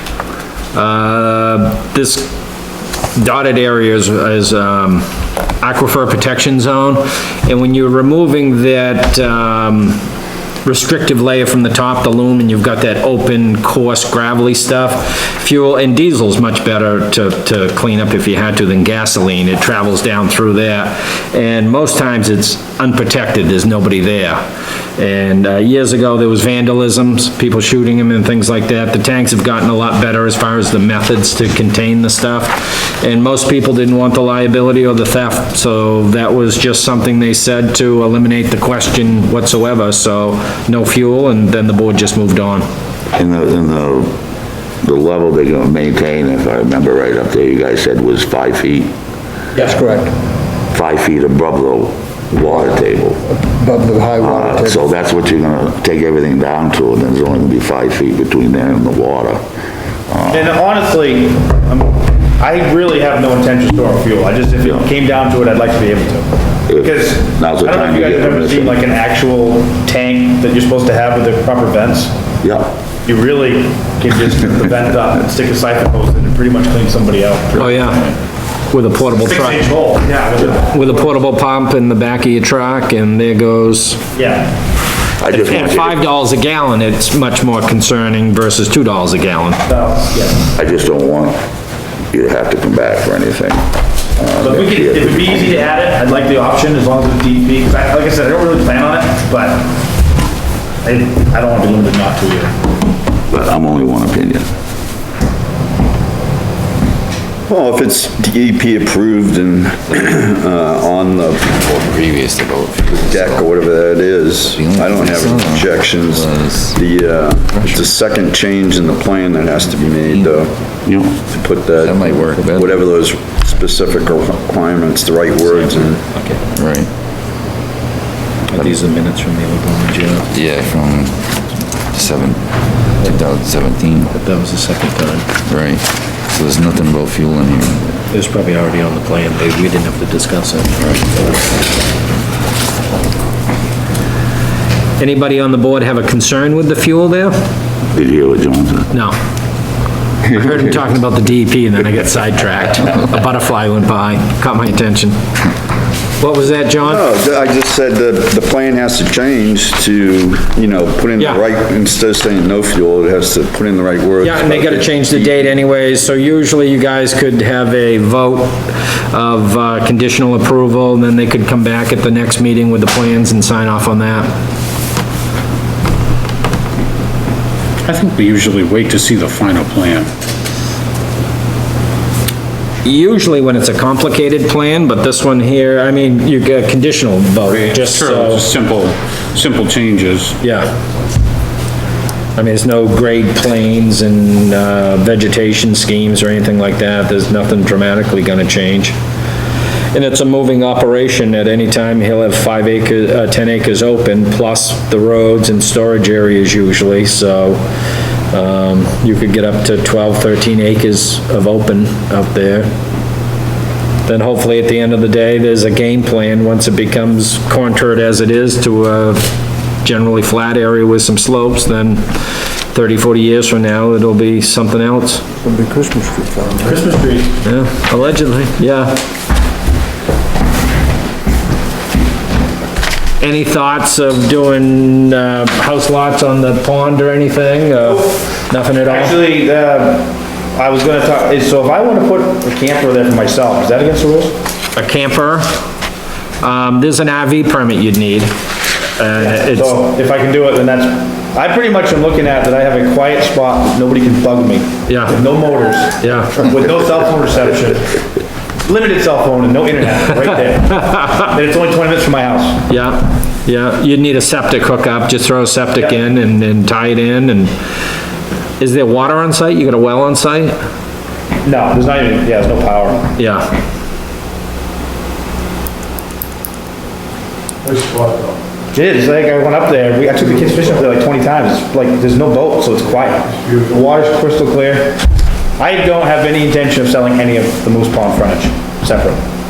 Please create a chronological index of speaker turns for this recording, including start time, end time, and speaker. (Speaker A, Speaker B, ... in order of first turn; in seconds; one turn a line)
Speaker A: 0.7-2.3
Speaker A: 3.1-5.0
Speaker A: 5.6-10.0
Speaker A: 10.6-24.4
Speaker A: 25.0-42.6
Speaker B: 43.1-44.1
Speaker B: 44.8-48.9
Speaker B: 50.7-53.2
Speaker C: 53.6-54.7
Speaker B: 54.2-59.4
Speaker B: 60.1-60.5
Speaker D: 60.3-66.3
Speaker B: 66.7-68.8
Speaker D: 66.8-72.1
Speaker B: 72.4-72.7
Speaker D: 73.0-78.0
Speaker A: 77.5-78.1
Speaker A: 78.7-79.7
Speaker D: 79.1-81.1
Speaker A: 80.4-84.0
Speaker D: 84.1-84.5
Speaker B: 85.2-86.0
Speaker A: 85.3-89.6
Speaker D: 89.7-90.4
Speaker B: 90.5-91.4
Speaker B: 92.1-93.6
Speaker B: 94.2-95.5
Speaker D: 94.4-99.7
Speaker D: 100.8-102.5
Speaker B: 103.3-104.5
Speaker E: 107.5-111.5
Speaker F: 111.5-113.5
Speaker E: 112.9-120.6
Speaker F: 114.5-116.8
Speaker F: 117.5-117.9
Speaker B: 120.8-121.2
Speaker E: 121.2-126.0
Speaker F: 121.8-122.8
Speaker A: 125.4-126.4
Speaker F: 126.5-126.9
Speaker A: 128.5-130.3
Speaker F: 130.3-131.3
Speaker F: 131.9-132.5
Speaker F: 133.0-134.1
Speaker A: 134.1-135.3
Speaker F: 135.5-137.9
Speaker A: 138.1-140.9
Speaker A: 145.0-147.3
Speaker B: 147.9-148.9
Speaker A: 150.2-155.2
Speaker A: 156.2-157.0
Speaker E: 156.8-165.5
Speaker A: 164.2-174.3
Speaker G: 177.9-180.1
Speaker A: 182.8-188.4
Speaker G: 187.9-190.3
Speaker A: 190.4-190.7
Speaker A: 192.3-198.9
Speaker A: 199.9-207.6
Speaker A: 208.3-212.7
Speaker A: 214.1-219.3
Speaker A: 219.8-225.2
Speaker C: 225.4-226.7
Speaker D: 226.6-227.3
Speaker A: 227.4-229.0
Speaker A: 233.2-239.2
Speaker D: 238.8-244.3
Speaker A: 244.8-245.5
Speaker A: 246.4-248.3
Speaker A: 249.0-249.8
Speaker D: 249.2-257.9
Speaker A: 254.9-255.2
Speaker A: 256.0-256.5
Speaker D: 258.6-262.6
Speaker A: 262.7-267.5
Speaker A: 268.6-270.5
Speaker D: 271.4-273.1
Speaker A: 273.1-273.5
Speaker D: 278.7-285.0
Speaker D: 285.6-289.2